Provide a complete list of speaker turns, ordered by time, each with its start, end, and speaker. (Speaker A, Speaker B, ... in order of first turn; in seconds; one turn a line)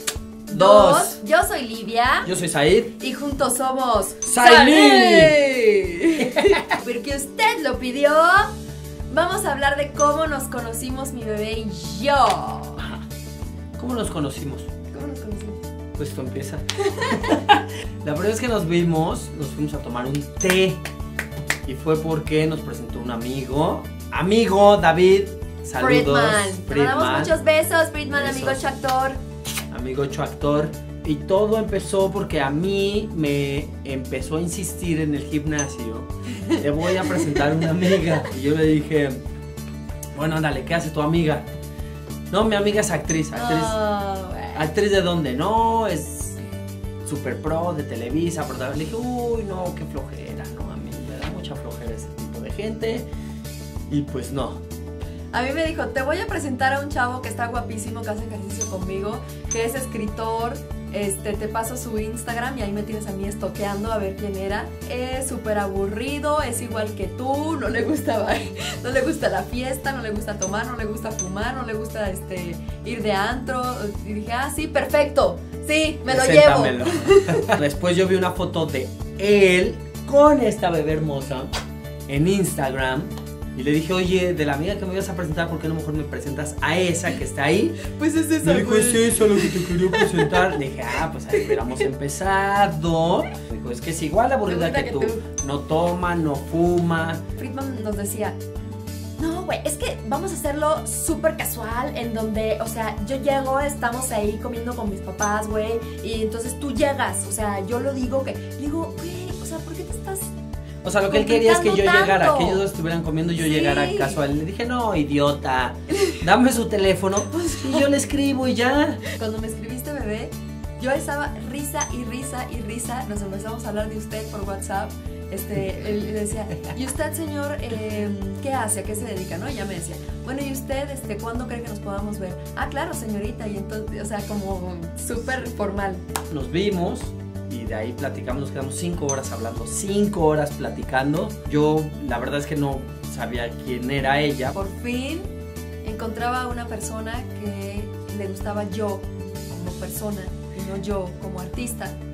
Speaker A: 0.5-2.3
Speaker B: 0.5-1.2
Speaker B: 2.2-2.9
Speaker A: 3.0-8.5
Speaker B: 4.2-5.4
Speaker B: 6.2-6.6
Speaker A: 9.1-12.8
Speaker B: 13.8-14.7
Speaker A: 14.9-15.6
Speaker B: 16.0-20.8
Speaker B: 21.7-27.3
Speaker A: 25.8-29.2
Speaker B: 28.1-28.7
Speaker B: 29.7-39.2
Speaker A: 36.4-38.0
Speaker B: 40.1-41.5
Speaker B: 42.3-43.8
Speaker A: 43.3-44.7
Speaker B: 44.5-46.4
Speaker B: 47.0-53.0
Speaker B: 53.9-54.6
Speaker A: 55.3-77.5
Speaker B: 76.1-81.5
Speaker B: 82.1-87.8
Speaker A: 87.8-90.5
Speaker B: 88.4-97.2
Speaker A: 91.3-91.6
Speaker A: 94.5-95.3
Speaker A: 97.4-98.4
Speaker A: 99.2-110.3
Speaker B: 110.8-119.0
Speaker A: 111.1-112.6
Speaker A: 113.4-114.2
Speaker A: 115.9-116.2
Speaker A: 117.4-117.9
Speaker A: 119.1-136.0
Speaker B: 136.3-144.5
Speaker A: 144.5-145.3
Speaker A: 145.8-151.9